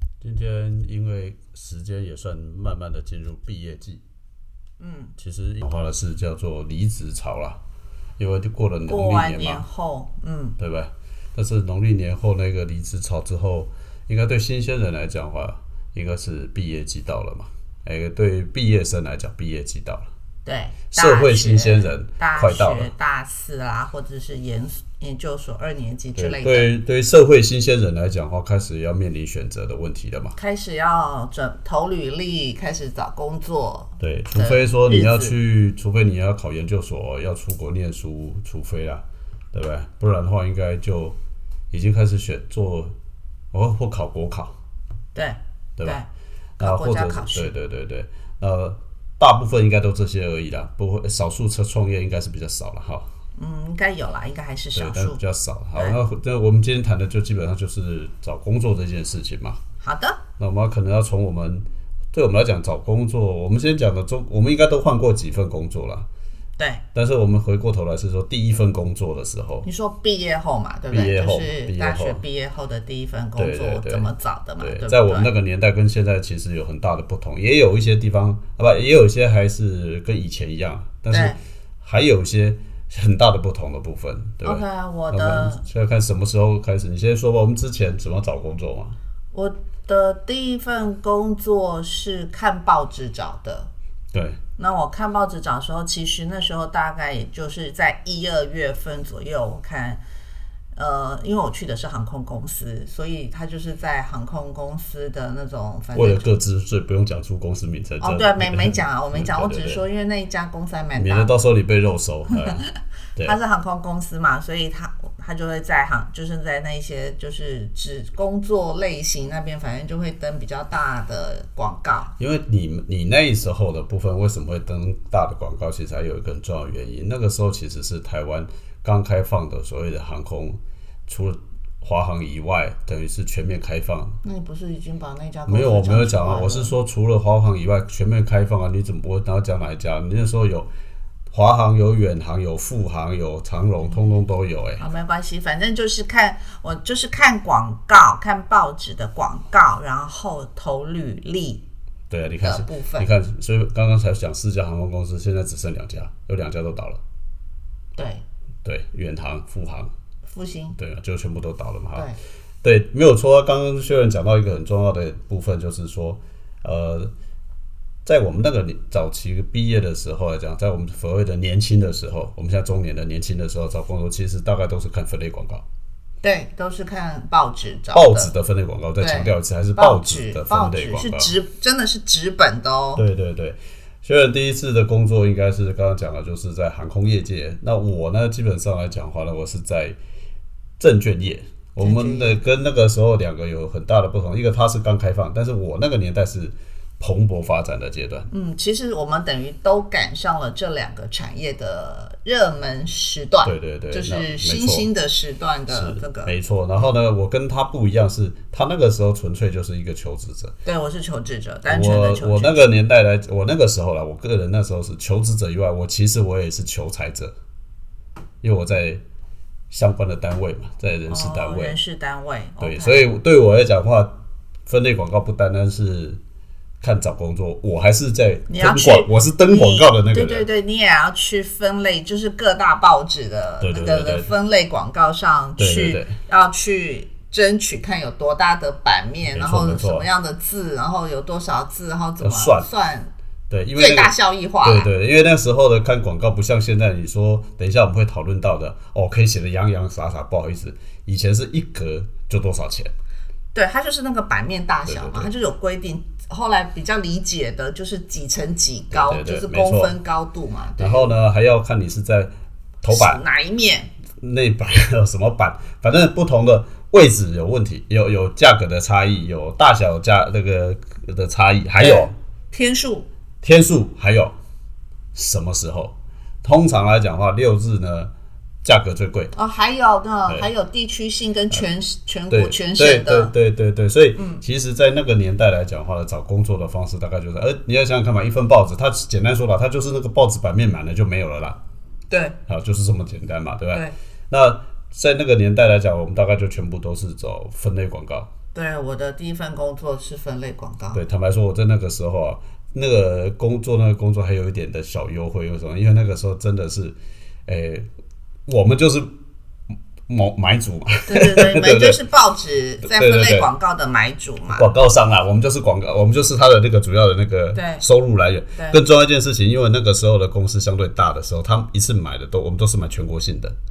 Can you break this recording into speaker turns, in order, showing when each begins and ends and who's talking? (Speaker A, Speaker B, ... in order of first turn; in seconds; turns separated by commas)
Speaker A: 0.2-4.0, Speaker B: 4.8-5.1, Speaker A: 5.2-7.6, Speaker A: 8.2-9.6, Speaker B: 8.9-10.6, Speaker A: 10.6-20.1, Speaker B: 20.4-26.7, Speaker A: 20.9-22.9, Speaker A: 26.2-30.3, Speaker B: 30.3-35.3, Speaker A: 34.0-41.2, Speaker A: 41.7-43.0, Speaker A: 43.5-44.5, Speaker B: 45.1-46.1, Speaker A: 46.6-53.1, Speaker B: 46.6-47.5, Speaker B: 53.4-55.2, Speaker A: 54.8-59.6, Speaker B: 59.8-60.2, Speaker A: 60.4-66.1, Speaker B: 66.6-66.8, Speaker A: 66.9-69.7, Speaker B: 69.6-75.3, Speaker A: 70.9-72.2, Speaker A: 73.4-89.0, Speaker B: 81.1-81.4, Speaker B: 84.4-85.6, Speaker B: 89.3-93.7, Speaker A: 94.1-94.4, Speaker B: 94.6-100.0, Speaker B: 100.8-106.3, Speaker A: 105.9-109.8, Speaker B: 108.0-111.3, Speaker A: 111.0-112.6, Speaker B: 112.3-122.1, Speaker A: 122.2-134.2, Speaker B: 134.2-136.7, Speaker A: 135.5-140.7, Speaker A: 141.3-144.8, Speaker B: 144.8-151.6, Speaker A: 152.1-157.0, Speaker B: 152.4-153.1, Speaker B: 158.0-158.2, Speaker A: 158.6-159.9, Speaker B: 160.2-160.8, Speaker A: 160.8-162.1, Speaker A: 162.6-167.1, Speaker A: 168.1-175.6, Speaker B: 176.2-178.3, Speaker A: 177.9-181.3, Speaker B: 179.0-183.0, Speaker A: 182.9-190.0, Speaker A: 190.8-198.3, Speaker B: 191.8-192.4, Speaker B: 198.3-206.9, Speaker A: 203.4-204.9, Speaker A: 205.7-210.6, Speaker B: 210.6-212.7, Speaker A: 211.7-217.3, Speaker A: 218.4-219.0, Speaker A: 219.7-221.8, Speaker B: 221.1-223.1, Speaker A: 222.6-226.2, Speaker A: 226.8-230.5, Speaker B: 228.5-243.1, Speaker A: 233.6-234.3, Speaker A: 235.6-236.1, Speaker A: 239.3-240.1, Speaker A: 242.2-242.7, Speaker A: 243.5-252.9, Speaker B: 243.8-244.9, Speaker B: 253.5-261.1, Speaker A: 254.8-255.3, Speaker A: 258.9-259.9, Speaker A: 260.8-263.2, Speaker B: 262.9-263.9, Speaker A: 264.2-272.1, Speaker B: 271.8-273.1, Speaker A: 273.4-274.3, Speaker A: 275.1-278.1, Speaker A: 278.6-279.3, Speaker B: 279.3-283.3, Speaker A: 282.3-291.6, Speaker B: 284.1-284.4, Speaker B: 292.1-292.4, Speaker A: 292.5-298.3, Speaker B: 298.5-301.0, Speaker A: 300.9-306.9, Speaker A: 307.5-307.9, Speaker A: 308.5-309.1, Speaker A: 310.1-312.0, Speaker B: 311.1-314.7, Speaker A: 312.8-313.5, Speaker A: 314.5-323.5, Speaker B: 317.5-317.8, Speaker B: 318.5-318.8